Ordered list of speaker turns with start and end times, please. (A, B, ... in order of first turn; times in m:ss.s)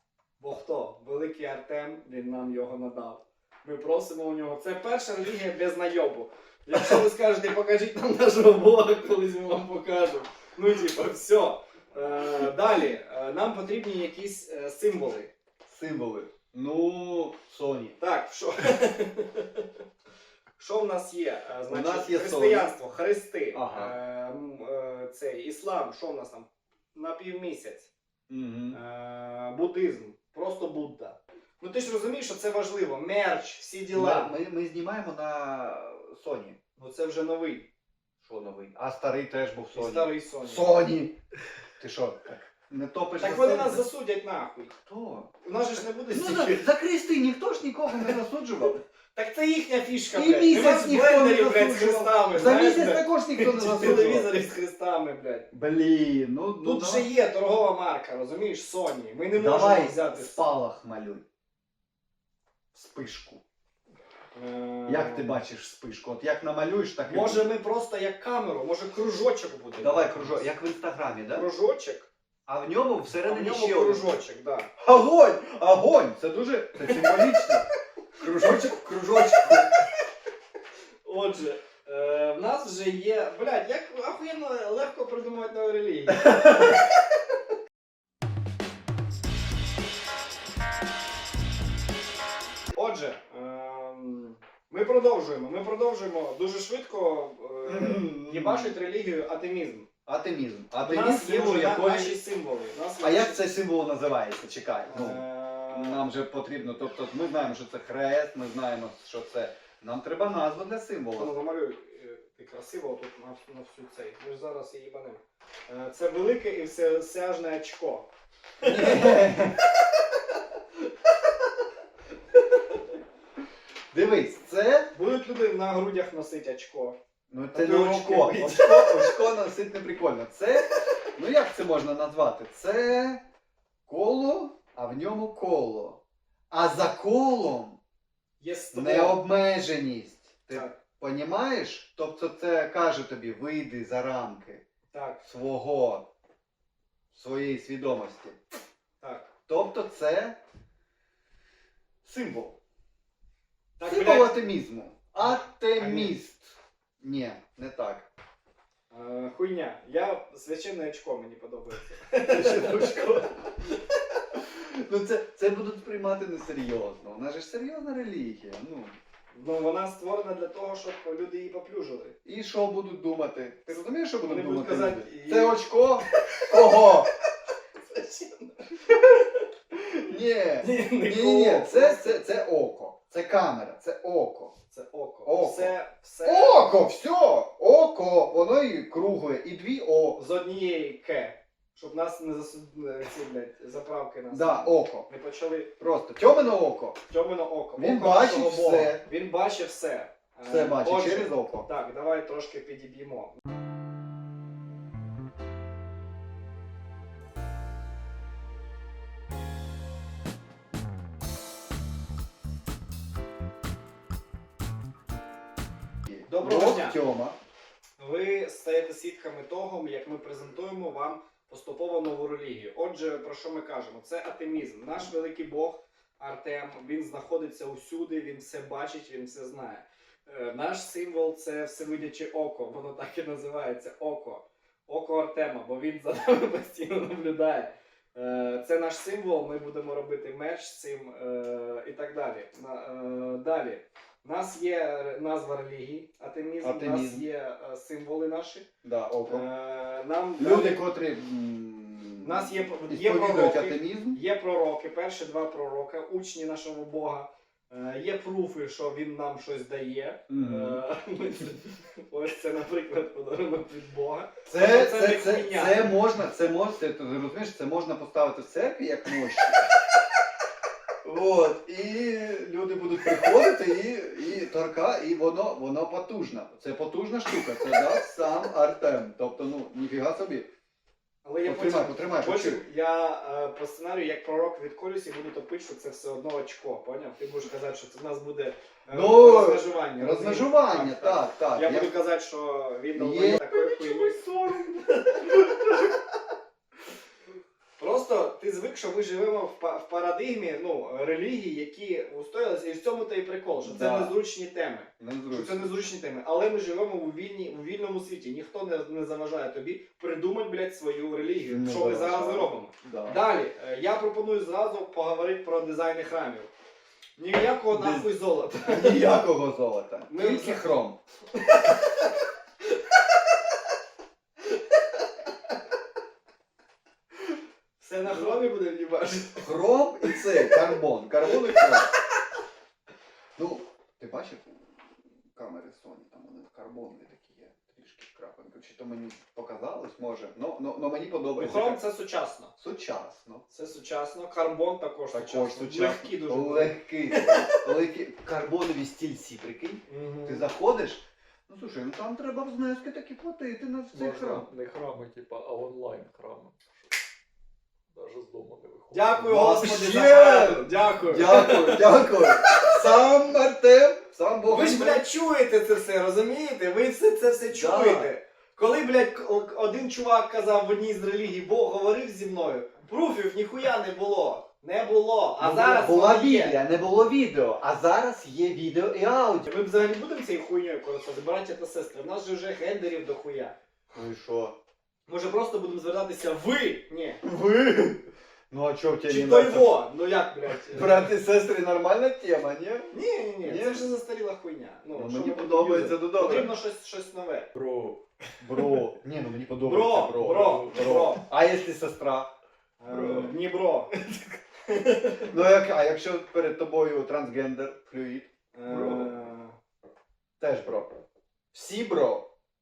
0:00.4-0:15.3 A
0:15.6-0:18.0 B
0:18.0-0:19.7 A
0:20.6-0:27.9 A
0:21.7-0:22.7 B
0:23.5-0:23.9 B
0:28.3-0:28.8 B
0:28.7-0:34.4 A
0:33.9-0:36.6 B
0:36.8-0:37.7 A
0:38.2-0:41.2 B
0:39.7-0:40.7 A
0:41.8-0:43.8 B
0:43.2-0:44.7 A
0:44.8-0:45.3 B
0:45.4-0:46.7 A
0:46.1-0:48.8 B
0:49.1-0:55.5 A
0:50.1-0:54.3 B
0:55.5-0:57.1 B
0:56.6-1:00.4 A
0:59.3-1:01.2 B
1:02.7-1:03.4 B
1:04.3-1:05.4 A
1:04.9-1:07.5 B
1:07.0-1:10.5 A
1:09.8-1:11.5 B
1:11.3-1:12.1 A
1:12.4-1:14.1 B
1:13.2-1:14.7 A
1:14.8-1:17.6 B
1:16.8-1:17.5 A
1:18.2-1:19.7 B
1:21.0-1:27.0 A
1:26.2-1:26.8 B
1:32.7-1:39.9 A
1:37.6-1:38.7 B
1:40.0-1:42.1 B
1:40.8-1:43.4 A
1:43.0-1:51.3 B
1:44.9-1:46.0 A
1:51.1-1:58.1 A
1:58.6-2:00.4 A
1:58.6-1:59.6 B
2:03.9-2:04.9 B
2:04.9-2:07.0 A
2:07.3-2:13.2 B
2:07.5-2:09.1 A
2:13.9-2:16.0 B
2:16.5-2:17.8 B
2:18.4-2:19.2 A
2:18.7-2:24.6 B
2:20.5-2:20.8 A
2:24.9-2:25.2 A
2:25.2-2:26.1 B
2:27.1-2:28.4 B
2:29.0-2:29.3 A
2:29.5-2:30.4 B
2:32.0-2:32.6 B
2:33.8-2:34.4 A
2:33.8-2:38.1 B
2:35.2-2:36.2 A
2:38.9-2:43.7 A
2:42.3-2:43.3 B
2:44.3-2:49.0 B
2:49.3-2:52.2 A
2:52.2-2:57.1 B
2:54.2-2:55.6 A
2:56.2-2:57.0 A
2:57.8-2:59.5 A
2:59.7-3:04.5 B
3:00.6-3:02.2 A
3:04.7-3:06.7 A
3:05.2-3:05.7 B
3:06.2-3:10.2 B
3:10.2-3:15.7 A
3:14.3-3:15.1 B
3:15.8-3:17.0 B
3:17.1-3:23.4 A
3:17.8-3:19.0 B
3:20.5-3:21.6 B
3:36.0-3:37.4 B
3:36.3-3:37.0 A
3:38.0-4:08.6 A
4:06.6-4:07.2 B
4:08.8-4:09.5 B
4:09.3-4:10.8 A
4:10.4-4:14.2 B
4:12.2-4:25.9 A
4:20.3-4:20.8 B
4:24.5-4:29.6 B
4:31.0-4:40.5 B
4:41.2-4:55.9 A
4:41.4-4:42.6 B
4:48.9-4:51.9 B
4:52.9-4:54.7 B
4:57.8-5:16.5 A
5:03.6-5:04.2 B
5:05.0-5:05.7 B
5:11.5-5:13.2 B
5:17.2-5:19.2 A
5:17.7-5:21.0 B
5:20.1-5:20.8 A
5:21.3-5:22.1 A
5:24.5-5:25.1 A
5:27.8-5:29.5 A
5:29.3-5:31.9 B
5:30.1-5:30.5 A
5:31.3-5:31.7 A
5:33.4-5:34.7 B
5:35.3-5:41.8 B
5:41.4-5:42.5 A
5:42.6-5:43.4 B
5:43.5-5:47.7 A
5:45.1-5:54.5 B
5:49.9-5:50.5 A
5:53.9-5:56.7 C
5:57.9-5:59.5 C
5:58.9-6:02.6 A
5:59.2-6:05.0 B
6:04.4-6:16.6 A
6:07.5-6:08.1 B
6:15.4-6:19.5 B
6:19.4-6:23.5 A
6:23.9-6:24.6 B
6:25.1-6:27.2 A
6:27.2-6:29.8 B
6:29.1-6:31.0 A
6:30.7-6:33.9 B
6:32.9-6:37.5 A
6:34.9-6:36.5 B
6:37.5-6:38.0 C
6:38.4-6:42.3 B
6:39.6-6:41.2 A
6:40.1-6:41.1 C
6:42.8-6:45.3 A
6:42.9-6:43.3 C
6:45.3-6:48.3 B
6:48.5-6:49.6 A
6:48.6-6:49.2 C
6:50.4-6:50.9 B
6:51.5-6:52.3 B